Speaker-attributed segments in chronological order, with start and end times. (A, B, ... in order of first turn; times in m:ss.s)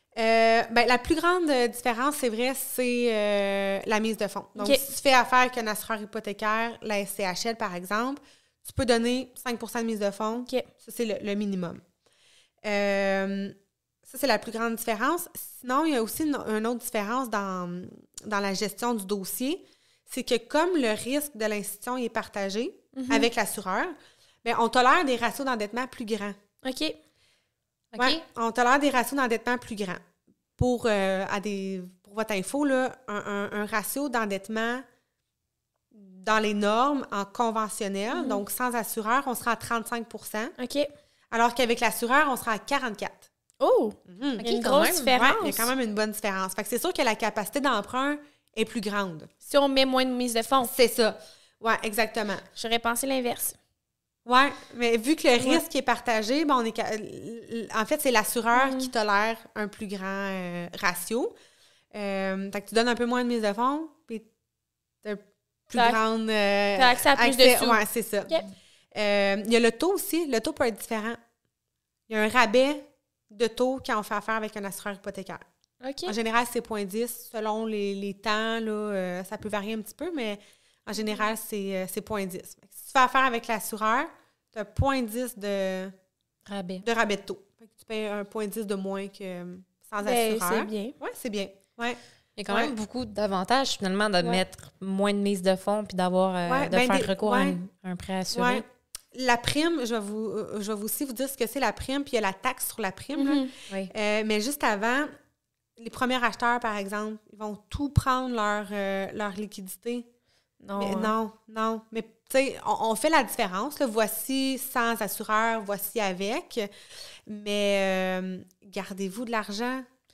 0:00.2-0:11.8 A
0:04.6-0:04.9 B
0:12.6-0:26.4 A
0:22.9-0:23.3 B
0:26.6-0:27.0 B
0:27.9-0:28.2 C
0:28.0-0:30.0 A
0:30.6-0:34.8 A
0:35.9-0:40.5 A
0:38.1-0:38.4 B
0:40.6-0:40.9 B
0:41.3-0:43.3 A
0:43.6-0:45.7 B
0:44.1-0:44.5 A
0:44.4-0:45.1 C
0:45.1-0:49.3 A
0:49.4-0:50.7 B
0:50.6-0:52.4 A
0:52.6-0:53.6 B
0:54.3-1:01.3 A
0:58.5-0:58.9 B
1:01.9-1:04.3 A
1:05.0-1:08.4 A
1:05.7-1:06.0 B
1:06.8-1:08.5 B
1:08.9-1:11.2 A
1:12.1-1:15.4 A
1:15.8-1:16.2 B
1:16.1-1:25.9 A
1:26.5-1:26.9 C
1:26.8-1:32.7 A
1:30.0-1:31.0 B
1:32.4-1:38.6 C
1:36.5-1:37.6 A
1:38.3-1:45.1 A
1:43.2-1:43.5 B
1:45.8-1:50.1 A
1:50.6-1:51.1 B
1:50.8-1:56.7 A
1:57.3-1:59.9 A